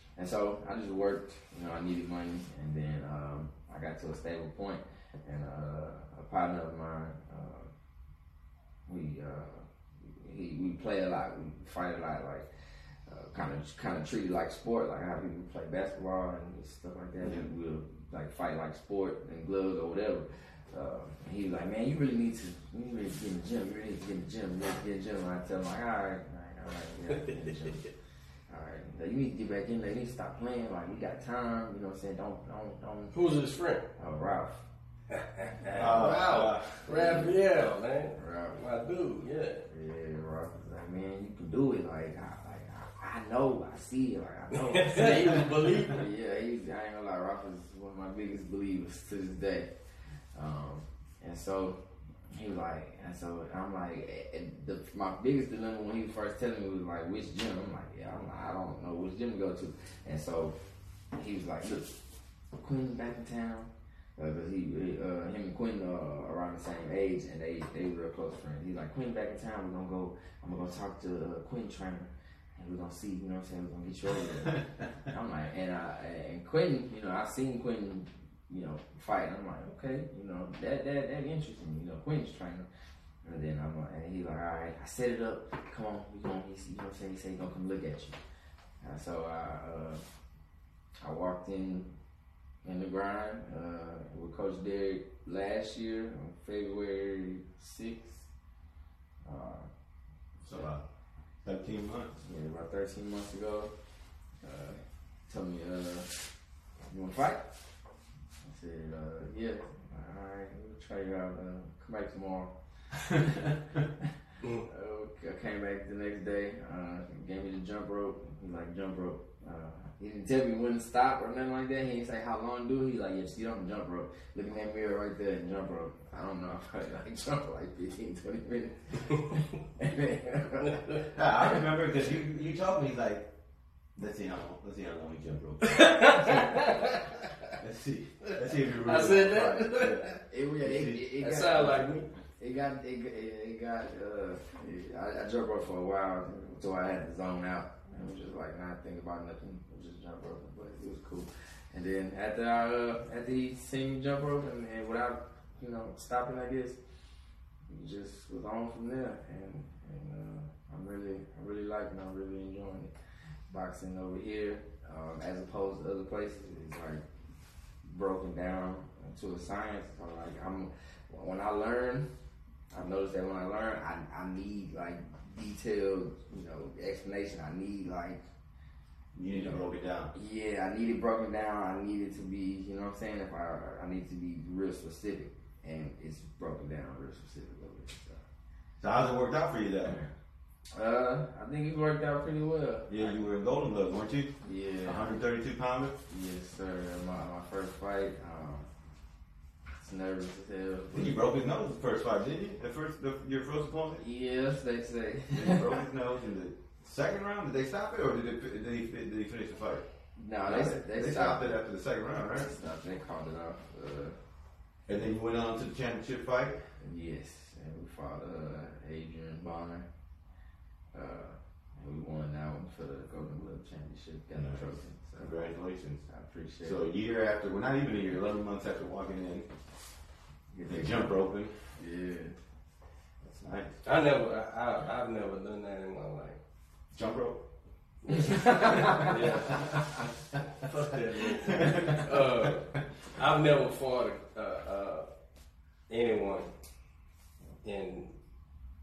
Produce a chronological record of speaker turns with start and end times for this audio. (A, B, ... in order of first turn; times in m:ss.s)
0:00.2-0:07.7 A
0:08.9-0:12.5 A
0:13.1-0:27.9 A
0:17.2-0:17.5 B
0:28.5-0:33.2 A
0:33.1-0:33.9 C
0:34.0-0:34.6 A
0:35.1-0:39.7 C
0:35.8-0:36.8 B
0:36.8-0:37.4 A
0:38.2-0:38.6 A
0:39.7-0:49.7 A
0:44.5-0:46.0 C
0:50.3-0:51.8 A
0:52.3-1:00.6 A
1:01.1-1:02.0 A
1:02.6-1:22.7 A
1:23.2-1:28.2 A
1:28.8-1:30.0 A
1:31.0-1:31.9 A
1:32.6-1:38.3 A
1:39.2-1:39.7 A
1:40.5-1:40.8 B
1:41.4-1:42.2 B
1:42.2-1:43.7 A
1:44.4-1:46.1 A
1:46.9-1:47.5 A
1:48.4-1:52.5 A
1:54.7-2:11.1 A
2:10.6-2:11.0 C
2:11.2-2:13.3 B
2:14.0-2:16.9 B
2:15.6-2:17.1 C
2:17.6-2:21.0 B
2:18.2-2:20.2 C
2:20.3-2:21.9 A
2:21.2-2:22.1 C
2:22.4-2:36.8 A
2:37.7-2:42.9 A
2:43.5-2:47.0 A
2:47.8-2:52.1 A
2:52.7-2:58.2 A
2:59.2-3:00.1 B
2:59.3-2:59.6 A
3:00.1-3:08.2 A
3:08.8-3:10.0 B
3:10.7-3:13.1 A
3:12.9-3:16.0 B
3:14.4-3:15.2 A
3:16.1-3:18.7 A
3:19.8-3:21.2 A
3:20.9-3:24.0 B
3:24.0-3:25.7 A
3:25.3-3:29.8 B
3:30.2-3:31.5 A
3:30.5-3:32.5 B
3:32.4-3:34.2 A
3:34.9-3:36.6 B
3:36.8-3:39.9 A
3:40.9-3:45.4 A
3:44.4-3:44.6 B
3:45.2-3:46.0 B
3:46.1-3:46.9 A
3:46.6-3:49.5 B
3:50.5-3:51.0 A
3:50.6-3:51.6 B
3:51.8-3:52.4 A
3:53.3-3:53.8 B
3:53.8-3:56.4 C
3:56.9-3:57.4 B
3:58.0-3:59.7 C
3:58.3-3:59.1 A
3:58.6-3:59.8 B
4:00.6-4:05.1 C
4:01.4-4:02.0 B
4:05.9-4:06.5 C
4:07.6-4:08.1 C